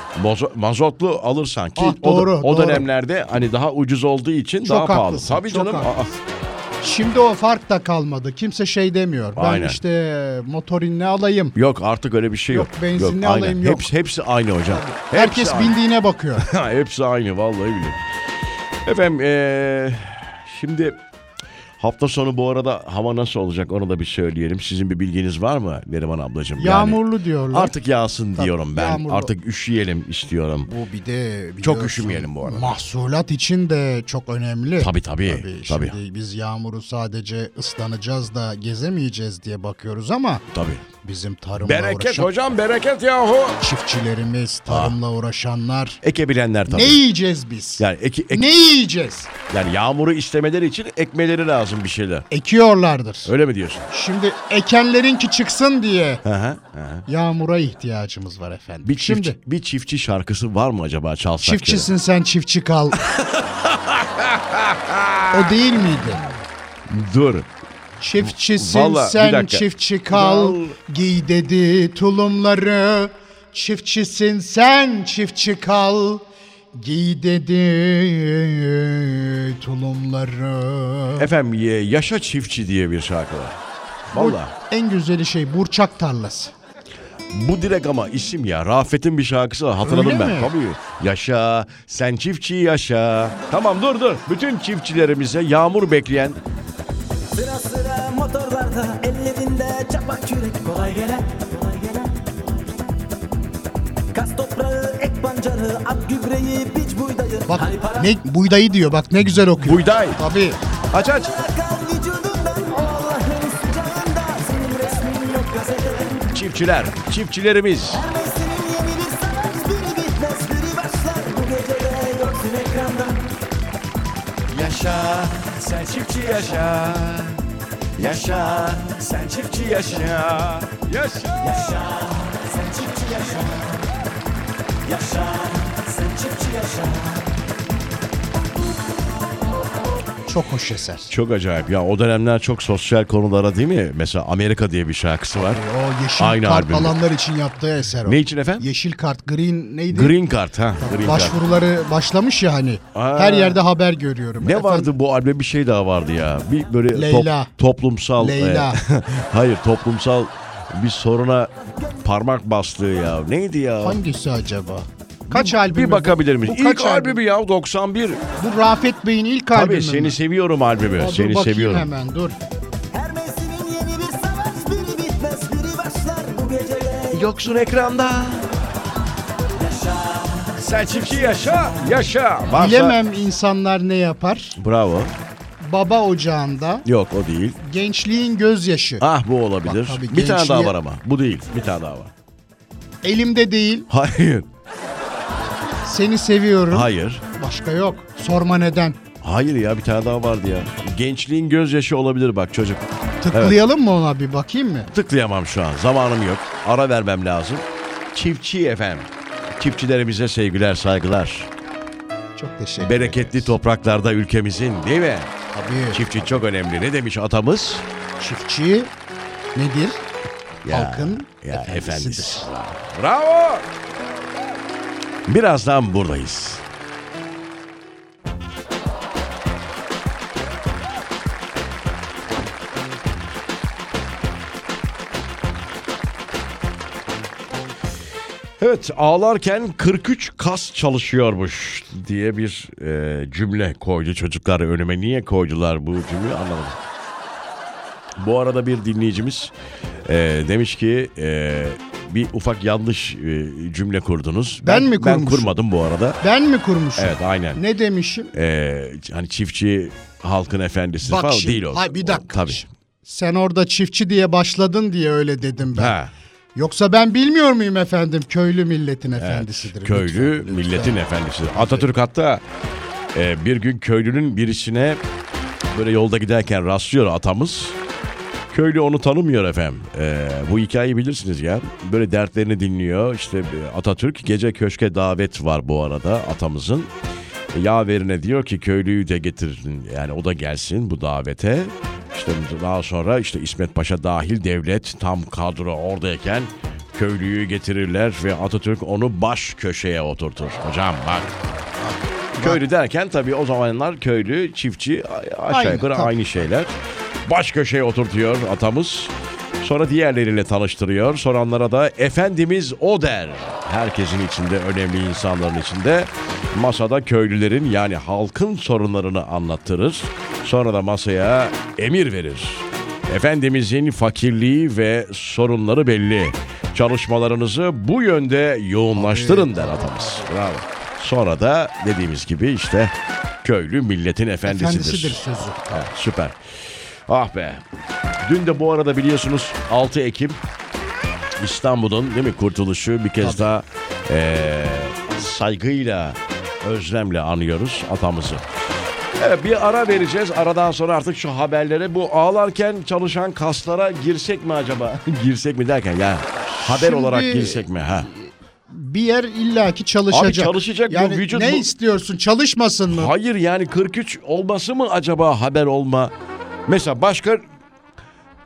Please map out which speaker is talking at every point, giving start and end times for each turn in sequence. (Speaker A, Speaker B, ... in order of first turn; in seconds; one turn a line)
Speaker A: 0.1-6.1
Speaker B: 1.8-2.9
Speaker B: 4.6-6.2
Speaker B: 6.8-11.6
Speaker A: 9.3-9.8
Speaker A: 11.5-15.8
Speaker B: 12.5-13.9
Speaker B: 14.7-16.5
Speaker A: 16.4-18.0
Speaker A: 18.9-21.0
Speaker A: 21.8-30.7
Speaker B: 26.6-27.7
Speaker B: 28.4-29.3
Speaker B: 30.6-40.4
Speaker A: 31.6-32.7
Speaker A: 34.8-36.0
Speaker A: 40.5-40.8
Speaker B: 41.0-42.3
Speaker A: 41.6-43.6
Speaker B: 43.6-46.0
Speaker A: 44.7-45.0
Speaker A: 46.0-47.0
Speaker B: 46.7-49.3
Speaker A: 47.8-48.5
Speaker A: 49.5-52.3
Speaker B: 52.3-53.3
Speaker A: 53.2-53.9
Speaker B: 53.9-56.2
Speaker A: 56.2-57.0
Speaker B: 57.1-59.4
Speaker A: 58.8-61.9
Speaker B: 61.4-63.0
Speaker A: 63.0-65.8
Speaker B: 65.3-66.2
Speaker A: 66.9-67.5
Speaker B: 68.0-76.2
Speaker A: 68.2-70.8
Speaker B: 76.7-81.3
Speaker A: 81.2-83.6
Speaker A: 84.1-84.5
Speaker B: 84.1-86.5
Speaker A: 87.3-96.4
Speaker B: 89.8-90.5
Speaker C: 97.3-102.2
Speaker C: 104.1-108.1
Speaker B: 107.5-110.6
Speaker A: 109.5-110.2
Speaker A: 110.9-111.4
Speaker C: 111.0-116.4
Speaker A: 116.3-118.0
Speaker C: 117.9-123.2
Speaker A: 124.5-127.4
Speaker A: 128.0-132.0
Speaker C: 131.5-133.7
Speaker C: 134.9-137.0
Speaker B: 140.3-141.1
Speaker A: 141.1-145.6
Speaker B: 145.3-150.2
Speaker A: 146.2-147.0
Speaker A: 148.0-148.7
Speaker A: 149.9-151.4
Speaker B: 150.8-154.9
Speaker A: 152.9-153.6
Speaker A: 154.4-164.0
Speaker B: 156.9-157.5
Speaker B: 158.2-158.8
Speaker B: 163.8-167.2
Speaker A: 165.3-168.2
Speaker B: 168.4-170.2
Speaker A: 169.5-171.9
Speaker B: 171.0-172.4
Speaker C: 172.9-177.3
Speaker A: 177.1-178.5
Speaker C: 179.6-181.7
Speaker A: 180.5-183.0
Speaker B: 182.5-184.6
Speaker A: 184.6-185.1
Speaker B: 185.6-186.8
Speaker A: 186.8-187.6
Speaker B: 187.6-189.0
Speaker A: 189.0-192.1
Speaker B: 189.6-190.8
Speaker B: 193.0-193.9
Speaker A: 193.9-194.5
Speaker B: 195.8-199.0
Speaker A: 196.7-197.2
Speaker A: 199.2-203.6
Speaker B: 203.2-204.9
Speaker A: 204.9-211.5
Speaker B: 212.4-213.5
Speaker A: 212.8-215.3
Speaker B: 215.5-216.3
Speaker A: 215.9-217.9
Speaker B: 218.2-218.9
Speaker B: 219.5-220.0
Speaker A: 220.6-223.7
Speaker B: 220.7-222.5
Speaker A: 225.2-226.6
Speaker A: 238.6-246.8
Speaker A: 248.2-249.5
Speaker A: 250.0-256.2
Speaker B: 254.6-255.5
Speaker B: 256.2-258.3
Speaker A: 257.0-257.6
Speaker A: 258.3-262.6
Speaker B: 261.0-266.0
Speaker A: 265.7-266.1
Speaker B: 266.5-271.9
Speaker A: 269.2-272.4
Speaker A: 273.1-275.0
Speaker A: 275.7-277.8
Speaker A: 278.5-286.9
Speaker A: 287.5-301.4
Speaker B: 301.8-302.6
Speaker A: 302.4-306.7
Speaker B: 305.5-306.2
Speaker A: 307.2-335.2
Speaker B: 328.9-330.5
Speaker B: 334.5-335.9
Speaker A: 335.7-337.6
Speaker A: 338.2-340.4
Speaker A: 341.4-348.5
Speaker B: 343.2-343.5
Speaker A: 349.2-358.1
Speaker B: 356.6-363.1
Speaker A: 360.1-361.7
Speaker A: 362.9-366.1
Speaker A: 366.7-367.4